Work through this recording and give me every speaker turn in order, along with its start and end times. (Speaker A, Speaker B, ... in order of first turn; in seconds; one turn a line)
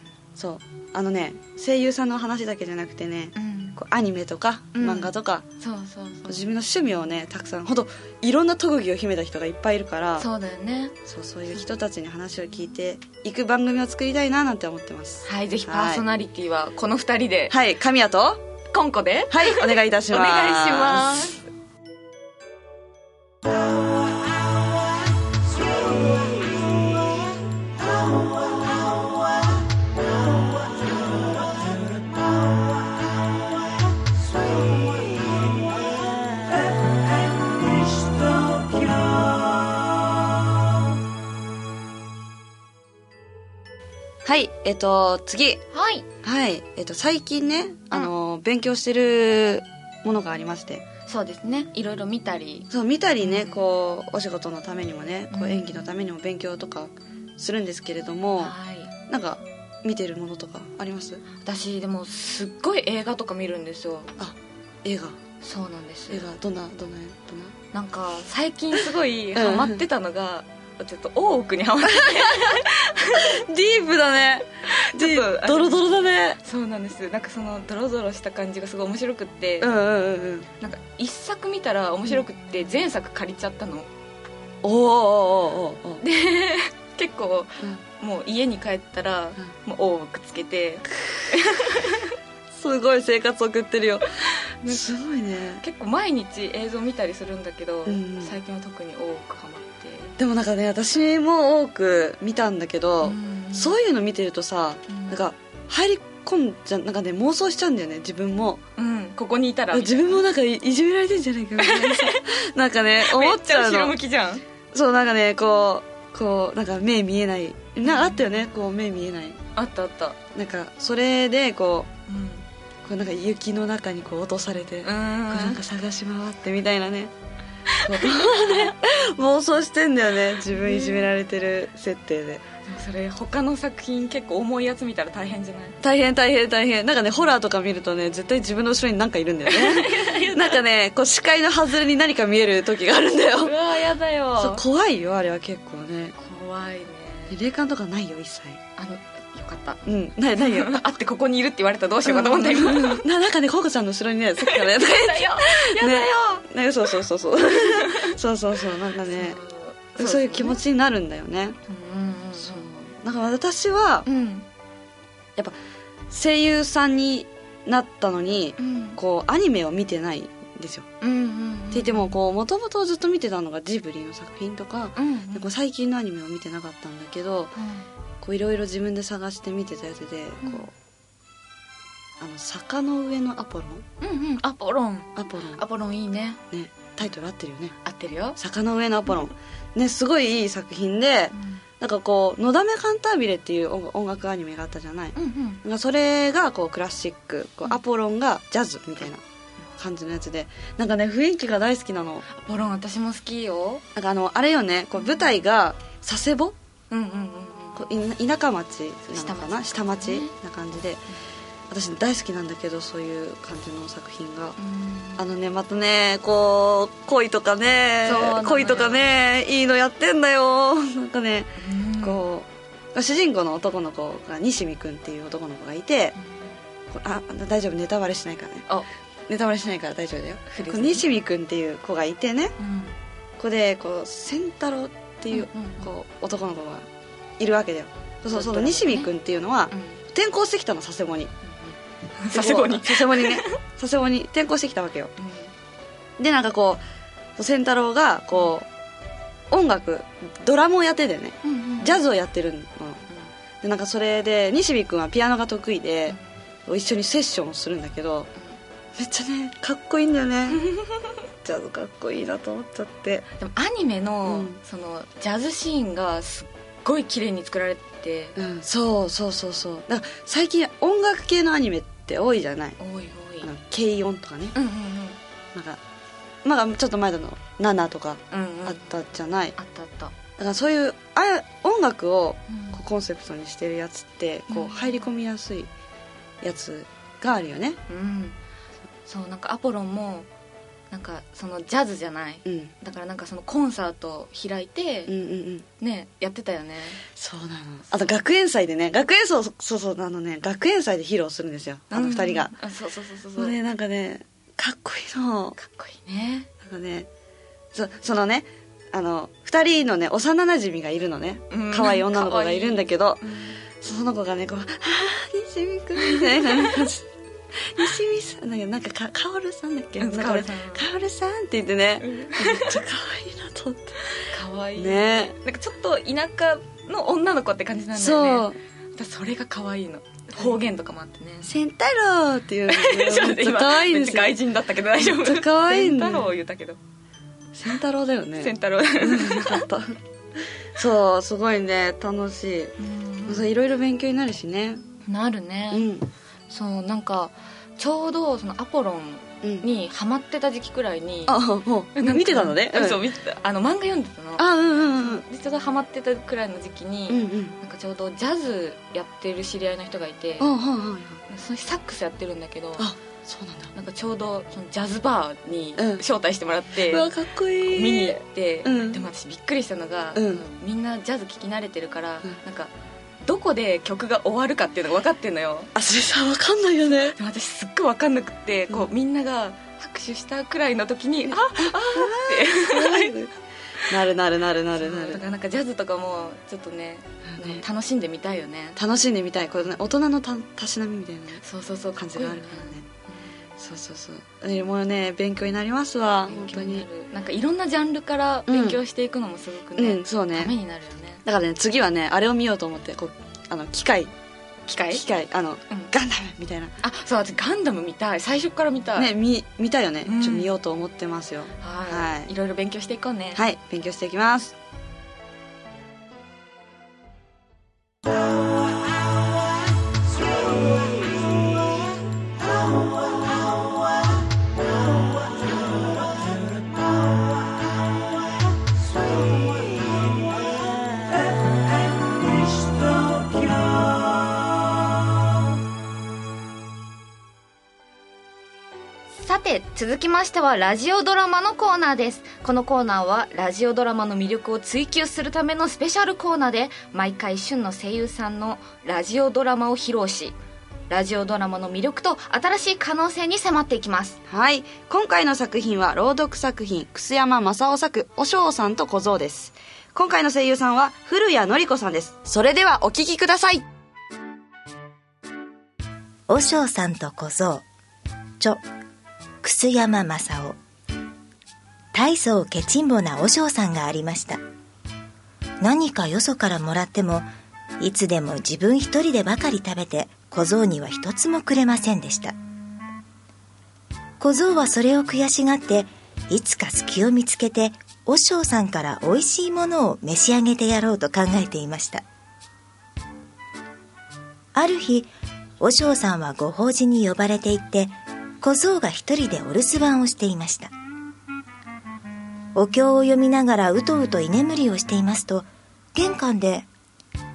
Speaker A: 0.4-5.5
Speaker B: 3.4-3.8
Speaker B: 4.8-6.5
Speaker A: 6.3-10.3
Speaker B: 10.2-10.9
Speaker A: 11.1-16.0
Speaker B: 15.2-17.6
Speaker A: 17.5-18.4
Speaker B: 18.7-21.4
Speaker A: 19.3-21.2
Speaker A: 44.2-45.6
Speaker B: 45.7-46.0
Speaker A: 46.2-50.8
Speaker B: 51.1-52.7
Speaker A: 52.7-58.5
Speaker B: 53.2-53.6
Speaker B: 55.3-55.9
Speaker B: 58.4-58.9
Speaker A: 59.1-61.2
Speaker B: 61.4-64.1
Speaker A: 64.2-65.2
Speaker B: 65.4-66.2
Speaker A: 66.1-67.5
Speaker B: 67.7-73.4
Speaker A: 69.3-69.8
Speaker A: 72.0-72.6
Speaker A: 73.2-76.4
Speaker B: 74.7-75.9
Speaker B: 76.4-79.7
Speaker A: 79.6-80.5
Speaker B: 80.6-83.9
Speaker A: 84.6-86.0
Speaker B: 86.0-92.1
Speaker A: 92.5-95.6
Speaker B: 94.2-94.8
Speaker B: 95.6-100.2
Speaker A: 97.9-98.4
Speaker A: 100.2-108.6
Speaker B: 103.0-103.8
Speaker B: 104.9-105.2
Speaker B: 108.8-110.2
Speaker A: 109.7-114.0
Speaker B: 111.6-112.3
Speaker B: 113.0-114.4
Speaker A: 114.7-119.4
Speaker B: 117.9-118.2
Speaker B: 119.5-120.2
Speaker A: 120.3-121.9
Speaker B: 122.1-122.5
Speaker A: 122.8-127.1
Speaker B: 124.8-125.6
Speaker B: 127.7-128.7
Speaker A: 127.8-132.4
Speaker B: 130.5-131.1
Speaker B: 132.7-135.8
Speaker A: 135.8-143.6
Speaker B: 139.5-140.6
Speaker B: 143.4-144.6
Speaker A: 144.4-146.2
Speaker B: 146.2-147.4
Speaker A: 147.3-148.6
Speaker B: 148.8-149.9
Speaker A: 149.9-150.8
Speaker B: 150.4-153.0
Speaker A: 152.1-159.4
Speaker B: 154.4-156.5
Speaker B: 157.5-158.2
Speaker B: 159.1-160.6
Speaker A: 160.0-161.6
Speaker B: 161.7-162.8
Speaker A: 162.4-164.1
Speaker B: 164.1-164.5
Speaker A: 166.1-170.9
Speaker B: 168.6-169.0
Speaker B: 171.0-172.2
Speaker A: 171.7-177.6
Speaker B: 175.0-175.5
Speaker B: 177.6-177.9
Speaker A: 178.2-180.7
Speaker A: 182.2-183.8
Speaker B: 184.0-186.4
Speaker A: 185.2-185.6
Speaker A: 186.5-187.8
Speaker B: 187.8-188.4
Speaker A: 188.4-199.2
Speaker B: 191.3-191.6
Speaker B: 195.2-195.6
Speaker A: 199.8-202.3
Speaker B: 202.3-203.8
Speaker A: 203.9-206.6
Speaker B: 205.0-205.4
Speaker B: 206.9-207.8
Speaker A: 207.8-211.1
Speaker B: 209.1-210.3
Speaker A: 211.7-214.6
Speaker B: 214.6-215.2
Speaker A: 215.2-226.2
Speaker B: 218.0-219.1
Speaker B: 221.6-222.2
Speaker B: 226.2-226.5
Speaker A: 226.9-228.7
Speaker A: 229.3-232.6
Speaker B: 230.5-231.1
Speaker B: 232.6-232.9
Speaker A: 233.4-236.9
Speaker B: 235.3-235.9
Speaker A: 237.4-241.3
Speaker B: 238.3-239.1
Speaker B: 239.7-240.0
Speaker B: 241.5-243.6
Speaker A: 242.3-245.1
Speaker B: 245.2-245.5
Speaker A: 246.2-246.8
Speaker A: 247.4-248.7
Speaker A: 249.5-253.1
Speaker B: 251.4-252.0
Speaker A: 253.6-256.2
Speaker A: 256.7-258.3
Speaker A: 259.0-260.7
Speaker B: 260.5-261.1
Speaker A: 261.4-263.3
Speaker B: 263.4-268.4
Speaker A: 264.3-264.6
Speaker A: 268.4-272.8
Speaker B: 272.8-273.5
Speaker A: 273.4-274.6
Speaker B: 274.5-275.2
Speaker A: 276.4-279.6
Speaker B: 278.3-278.9
Speaker B: 279.6-280.1
Speaker A: 280.4-285.7
Speaker B: 282.5-282.8
Speaker B: 284.5-285.1
Speaker A: 286.4-287.8
Speaker B: 287.9-288.4
Speaker B: 289.1-290.3
Speaker B: 290.9-295.1
Speaker A: 292.5-292.7
Speaker A: 295.1-295.7
Speaker B: 295.8-297.0
Speaker A: 297.2-302.5
Speaker B: 297.9-298.2
Speaker B: 301.9-303.6
Speaker A: 303.4-305.6
Speaker B: 305.6-306.5
Speaker A: 306.6-307.1
Speaker A: 307.7-313.2
Speaker B: 311.5-313.6
Speaker A: 313.8-324.0
Speaker B: 316.0-316.7
Speaker B: 320.0-320.9
Speaker B: 322.0-322.8
Speaker B: 324.1-331.5
Speaker A: 324.8-325.3
Speaker A: 328.0-328.6
Speaker A: 331.4-334.4
Speaker B: 332.7-336.8
Speaker A: 335.0-336.3
Speaker A: 337.6-340.0
Speaker B: 338.4-339.6
Speaker A: 340.8-342.8
Speaker B: 342.8-343.5
Speaker A: 343.3-344.8
Speaker B: 345.1-345.9
Speaker A: 345.7-346.1
Speaker B: 346.5-351.4
Speaker A: 349.4-349.7
Speaker A: 351.3-353.0
Speaker B: 351.9-360.5
Speaker A: 354.4-355.2
Speaker A: 357.1-357.6
Speaker A: 360.4-361.2
Speaker B: 361.3-362.9
Speaker A: 362.8-363.7
Speaker B: 363.8-367.1
Speaker A: 365.8-366.0
Speaker A: 366.9-369.0
Speaker B: 367.6-372.7
Speaker A: 370.1-370.4
Speaker B: 373.2-375.7
Speaker A: 375.8-377.2
Speaker B: 377.2-383.2
Speaker A: 381.3-383.3
Speaker A: 383.9-385.2
Speaker B: 384.8-388.8
Speaker A: 387.3-387.6
Speaker A: 388.8-391.4
Speaker B: 391.4-393.3
Speaker A: 392.0-392.9
Speaker A: 393.6-396.9
Speaker B: 396.3-401.2
Speaker A: 398.5-398.8
Speaker A: 399.8-400.5
Speaker A: 401.2-404.1
Speaker B: 404.7-405.0
Speaker A: 404.9-406.8
Speaker B: 406.8-409.1
Speaker A: 409.0-412.3
Speaker B: 410.1-410.5
Speaker B: 411.6-413.4
Speaker A: 413.4-414.5
Speaker B: 439.2-450.4
Speaker B: 450.9-454.2
Speaker A: 454.3-463.6
Speaker C: 466.3-467.6
Speaker C: 469.4-470.6
Speaker C: 471.9-474.4
Speaker C: 475.6-477.3
Speaker C: 477.8-482.3
Speaker C: 484.2-492.0
Speaker C: 494.5-495.1
Speaker C: 495.6-500.7
Speaker C: 502.6-506.7